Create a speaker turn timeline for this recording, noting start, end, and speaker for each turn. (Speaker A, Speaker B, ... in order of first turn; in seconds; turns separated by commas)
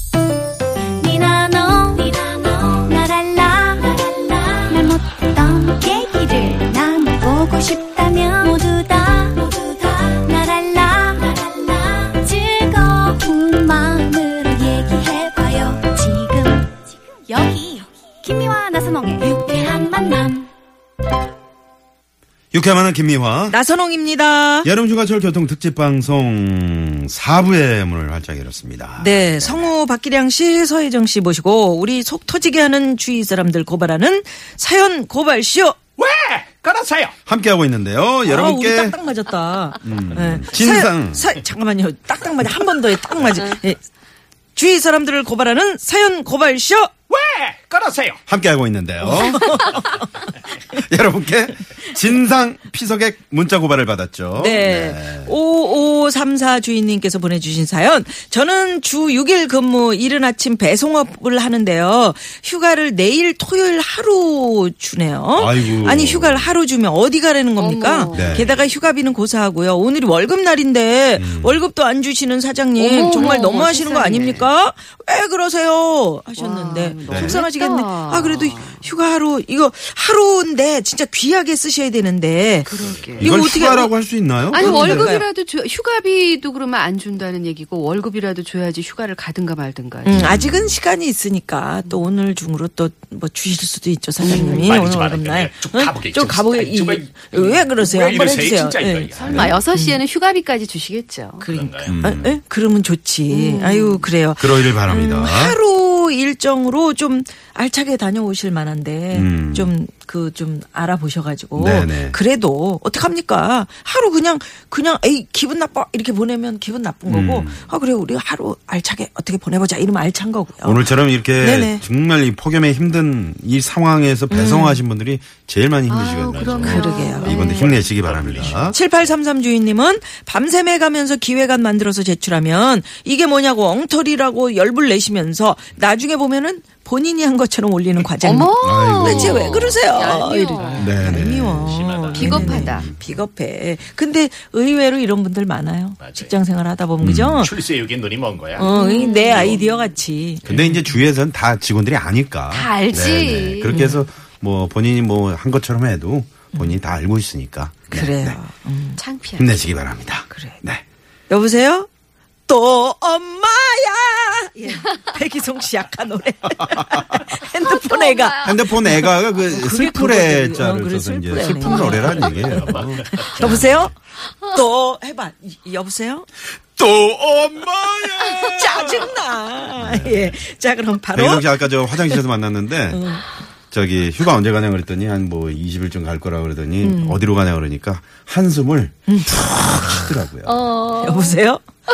Speaker A: 1.0-16.7, Speaker A: 17.3-20.5, Speaker B: 22.5-23.6, Speaker C: 23.5-24.7, Speaker B: 24.6-29.7, Speaker C: 29.0-35.8, Speaker D: 36.0-37.1, Speaker B: 37.2-39.0, Speaker C: 38.2-43.8, Speaker B: 39.8-41.2, Speaker C: 44.5-46.9, Speaker D: 47.1-48.2, Speaker B: 48.3-50.0, Speaker C: 49.0-50.0, Speaker B: 50.7-55.3, Speaker C: 54.3-83.9, Speaker B: 65.3-66.5, Speaker E: 67.6-68.6, Speaker B: 68.1-68.5, Speaker B: 71.2-71.7, Speaker E: 72.8-74.5, Speaker E: 76.4-78.8, Speaker B: 77.0-77.4, Speaker E: 82.6-83.3, Speaker D: 82.8-83.2, Speaker B: 83.2-85.2, Speaker C: 84.5-85.3, Speaker E: 84.5-90.2, Speaker C: 90.0-100.0, Speaker B: 90.1-90.8, Speaker E: 94.2-94.7, Speaker D: 94.3-99.5, Speaker E: 99.1-101.5, Speaker B: 99.2-99.6, Speaker C: 101.4-121.8, Speaker D: 101.5-102.0, Speaker B: 101.8-102.4, Speaker E: 103.3-104.1, Speaker B: 104.4-105.6, Speaker B: 109.1-109.7, Speaker B: 111.5-112.2, Speaker B: 117.1-117.7, Speaker B: 120.6-128.8, Speaker C: 124.3-124.8, Speaker E: 125.9-127.8, Speaker D: 126.3-126.7, Speaker C: 126.6-127.5, Speaker D: 127.5-128.9, Speaker C: 128.7-147.5, Speaker E: 138.2-140.8, Speaker B: 138.6-139.7, Speaker D: 140.4-140.9, Speaker B: 140.7-143.0, Speaker D: 141.7-142.3, Speaker E: 142.1-142.9, Speaker D: 146.0-146.3, Speaker B: 147.0-147.4, Speaker D: 147.4-148.7, Speaker E: 148.6-149.6, Speaker C: 148.6-150.9, Speaker B: 150.4-158.4, Speaker E: 152.5-153.8, Speaker C: 153.7-154.0, Speaker C: 157.9-159.0, Speaker E: 159.0-159.6, Speaker B: 159.4-160.8, Speaker C: 160.3-160.6, Speaker C: 161.3-161.9, Speaker C: 162.5-176.3, Speaker E: 167.6-168.6, Speaker B: 168.4-173.9, Speaker D: 171.8-173.5, Speaker B: 176.8-179.2, Speaker C: 178.5-182.2, Speaker B: 179.8-180.4, Speaker B: 181.1-183.1, Speaker C: 182.9-183.2, Speaker B: 183.7-190.7, Speaker C: 186.8-187.2, Speaker C: 189.1-190.2, Speaker E: 190.4-191.4, Speaker C: 191.0-191.6